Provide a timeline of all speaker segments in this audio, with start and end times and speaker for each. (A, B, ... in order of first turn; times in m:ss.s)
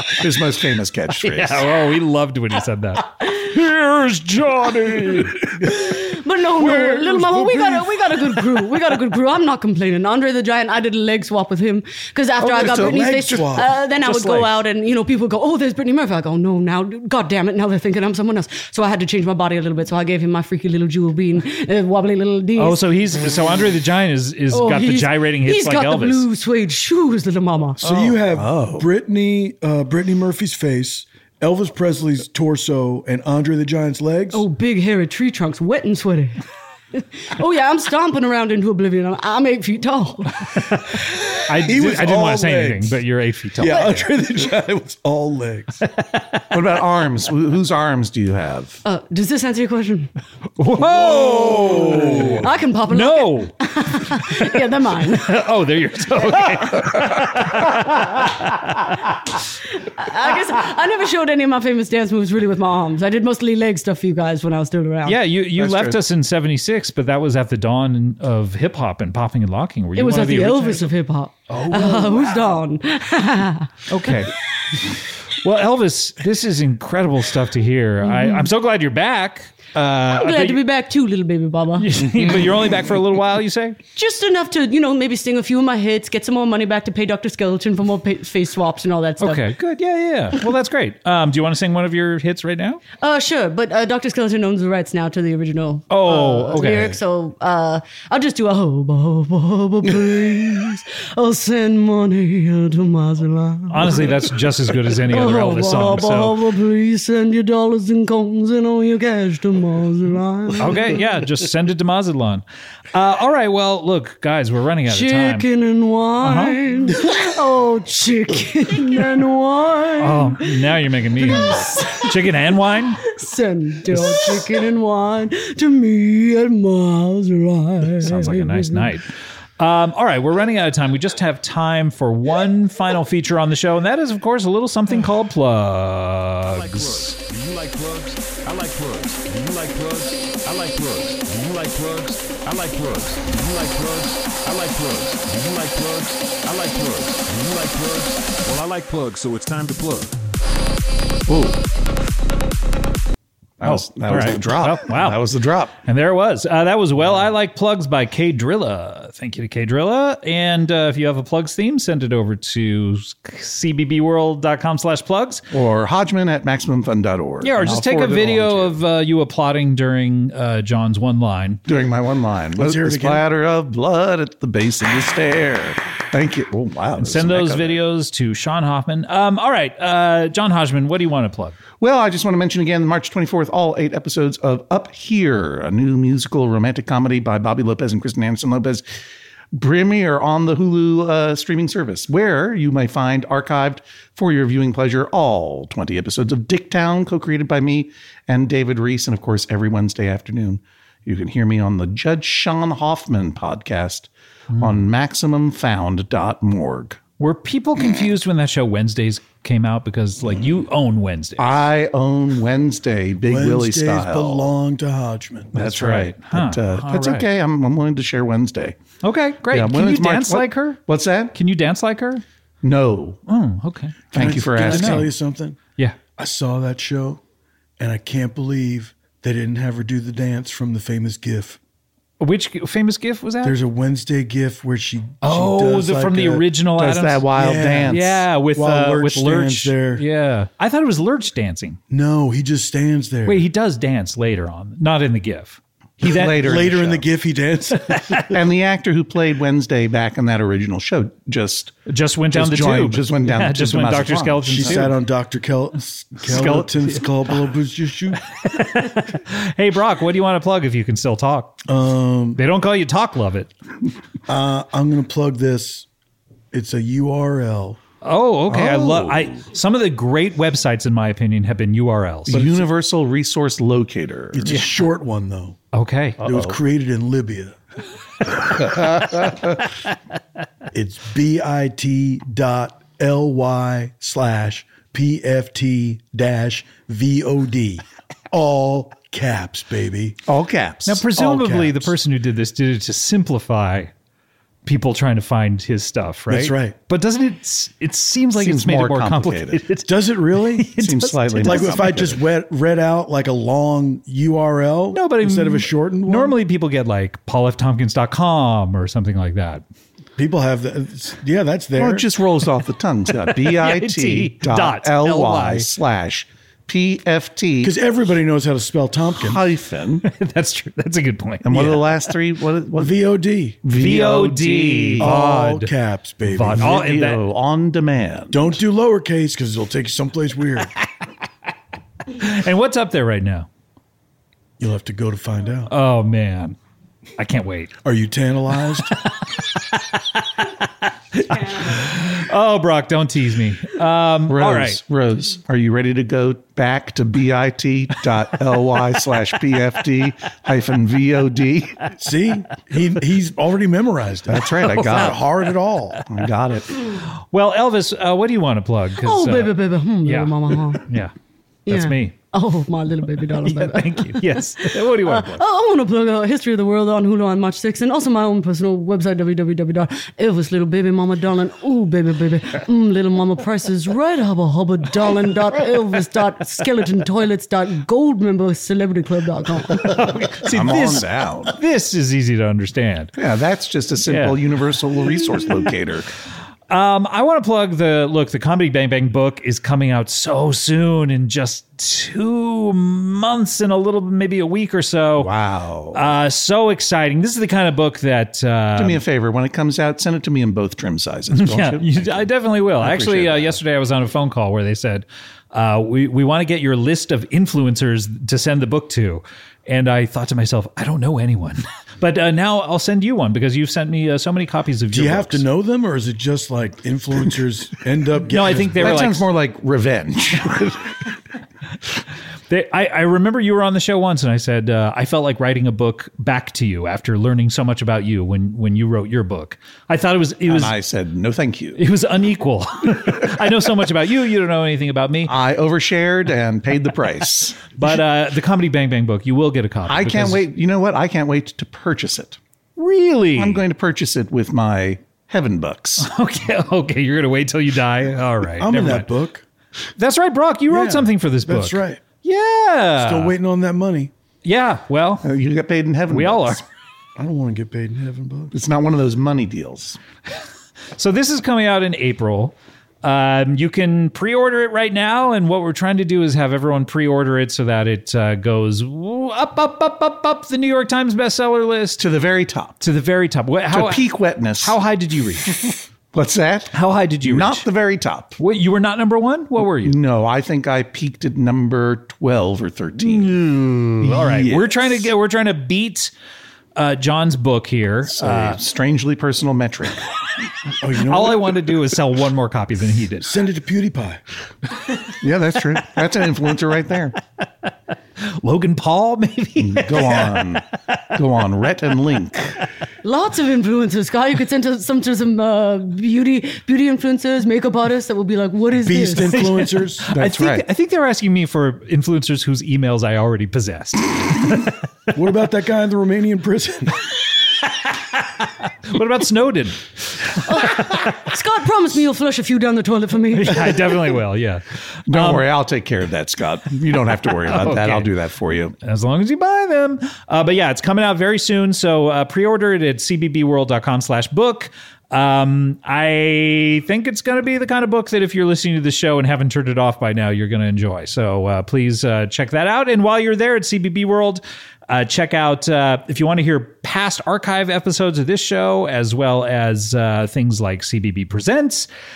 0:00.1-0:01.7 A
0:01.2-0:05.6 B
0:05.6-0:05.9 C
0:05.8-0:22.8 D
0:06.6-0:08.0 C
0:12.5-0:13.7 C
0:12.5-0:13.1 A
0:22.6-0:26.2 B
0:24.5-0:27.8 D
0:27.8-0:28.9 A
0:27.8-0:34.4 C
0:34.3-0:36.4 D
0:36.9-0:40.5 D
0:41.4-0:44.0 B
0:41.5-0:43.0 C
0:43.6-0:45.8 C
0:43.6-0:44.1 D
0:46.5-0:48.8 A
0:48.8-0:50.1 D
0:50.6-0:53.5 B
0:50.8-0:52.5 C
0:52.4-0:55.4 D
0:54.1-0:54.5 B
0:55.1-0:58.7 B
0:59.8-1:05.2 D
1:05.0-1:10.9 B
1:05.5-1:06.0 A
1:10.0-1:13.7 D
1:11.5-1:12.4 B
1:13.9-1:14.3 B
1:15.4-1:20.6 B
1:18.0-1:18.5 D
1:20.1-1:22.0 D
1:21.8-1:23.8 B
1:24.0-1:29.4 D
1:29.2-1:32.8 B
1:33.0-1:44.1 D
1:35.9-1:36.9 B
1:43.7-1:46.4 B
1:45.0-1:50.9 D
1:50.6-1:55.4 B
1:54.9-2:00.7 D
1:56.2-1:56.6 B
2:00.0-2:03.0 B
2:01.2-2:02.3 D
2:03.0-2:08.9 D
2:08.0-2:17.2 B
2:16.4-2:30.1 E
2:31.3-2:31.6 A
2:33.6-2:35.8 A
2:33.6-2:35.2 B
2:35.8-2:45.4 B
2:45.5-2:48.8 A
2:47.4-2:51.6 B
2:51.6-2:57.8 A
2:52.6-2:53.2 C
2:57.0-3:01.6 B
3:01.8-3:08.8 A
3:09.5-3:27.0 A
3:27.2-3:31.5 B
3:31.4-3:34.5 A
3:33.2-3:35.5 C
3:35.5-3:38.8 A
3:35.5-3:37.3 B
3:39.0-3:40.8 B
3:39.5-3:41.3 A
3:41.3-3:42.2 B
3:42.6-3:43.2 A
3:43.3-3:45.1 B
3:44.1-3:45.6 C
3:44.1-3:45.1 A
3:46.1-3:47.2 C
3:47.8-3:51.6 C
3:52.2-3:53.6 B
3:53.4-3:56.4 C
3:55.2-3:57.2 B
3:56.8-3:58.2 A
3:57.3-4:00.0 C
3:57.9-4:01.8 B
4:01.9-4:03.4 C
4:03.2-4:06.4 B
4:06.0-4:07.0 A
4:06.2-4:08.3 C
4:08.3-4:11.8 A
4:11.9-4:15.0 B
4:12.3-4:14.9 A
4:14.4-4:18.3 C
4:16.2-4:17.0 B
4:18.4-4:21.6 B
4:21.6-4:22.4 C
4:22.3-4:23.5 B
4:24.3-4:25.9 C
4:26.5-4:27.8 C
4:28.0-4:32.5 B
4:28.5-4:29.4 A
4:32.3-4:34.6 A
4:34.3-4:35.6 C
4:34.5-4:34.8 B
4:35.7-4:36.2 B
4:36.2-4:36.6 A
4:36.2-4:37.6 C
4:38.7-4:39.2 A
4:40.7-4:50.2 C
4:50.3-4:51.0 A
4:50.8-4:53.9 B
4:51.1-4:51.9 C
4:54.6-5:01.8 B
4:56.3-4:56.8 C
4:58.4-4:59.6 A
4:59.8-5:00.7 C
5:00.8-5:02.2 A
5:01.4-5:06.4 C
5:04.9-5:09.6 B
5:10.2-5:12.0 C
5:11.8-5:17.8 A
5:13.3-5:15.7 B
5:17.6-5:19.4 C
5:19.2-5:20.0 A
5:20.0-5:21.8 B
5:21.4-5:23.0 A
5:22.8-5:23.6 C
5:23.6-5:25.1 A
5:23.7-5:25.7 B
5:25.0-5:26.8 C
5:26.2-5:27.2 B
5:26.6-5:28.6 A
5:28.3-5:30.7 C
5:32.1-5:33.5 B
5:34.6-5:35.7 C
5:35.7-5:36.6 B
5:37.2-5:37.7 B
5:37.8-5:38.9 C
5:39.4-5:44.8 B
5:44.3-5:51.9 A
5:52.0-5:56.0 C
5:54.3-5:55.2 A
5:54.7-5:55.5 B
5:56.1-5:56.8 A
5:57.3-5:59.5 B
5:59.0-6:00.8 D
6:00.0-6:01.1 B
6:01.6-6:19.9 D
6:01.7-6:02.2 B
6:03.4-6:05.4 B
6:19.8-6:23.1 B
6:20.5-6:21.5 A
6:23.2-6:26.1 A
6:24.1-6:24.4 B
6:26.7-6:35.3 B
6:35.2-6:36.1 A
6:35.9-6:39.0 B
6:38.8-6:43.6 A
6:41.3-6:55.4 B
6:54.9-6:59.0 C
6:58.3-6:59.2 B
6:58.7-7:01.1 A
7:02.5-7:10.7 B
7:10.5-7:11.8 A
7:11.8-7:15.3 B
7:15.2-7:17.8 A
7:17.8-7:20.4 B
7:19.8-7:22.4 A
7:22.8-7:23.6 B
7:23.4-7:26.1 A
7:26.0-7:29.1 B
7:28.6-7:29.4 C
7:30.0-7:33.4 B
7:30.7-7:32.0 C
7:33.0-7:34.1 C
7:34.4-7:35.3 B
7:35.2-7:36.6 A
7:36.1-7:36.6 B
7:37.2-7:38.5 C
7:38.5-7:40.0 A
7:41.0-7:52.0 B
7:52.0-7:52.8 A
7:52.8-7:55.5 B
7:53.7-7:54.8 A
7:55.5-7:58.4 A
7:56.7-7:57.7 B
7:58.4-8:00.0 B
7:59.6-8:03.5 A
8:03.0-8:06.1 B
8:04.0-8:05.1 A
8:06.8-8:08.6 B
8:08.0-8:10.0 A
8:10.8-8:11.6 C
8:11.1-8:13.3 B
8:13.2-8:14.2 C
8:15.2-8:17.2 A
8:18.2-8:20.4 B
8:19.6-8:22.6 A
8:23.0-8:29.4 D
8:28.8-8:30.1 C
8:29.3-8:34.7 B
8:30.1-8:30.6 A
8:35.1-8:37.0 C
8:38.1-8:41.2 B
8:40.5-8:43.8 D
8:43.3-8:45.4 B
8:45.1-8:48.8 A
8:47.5-8:48.1 B
8:48.8-9:11.9 B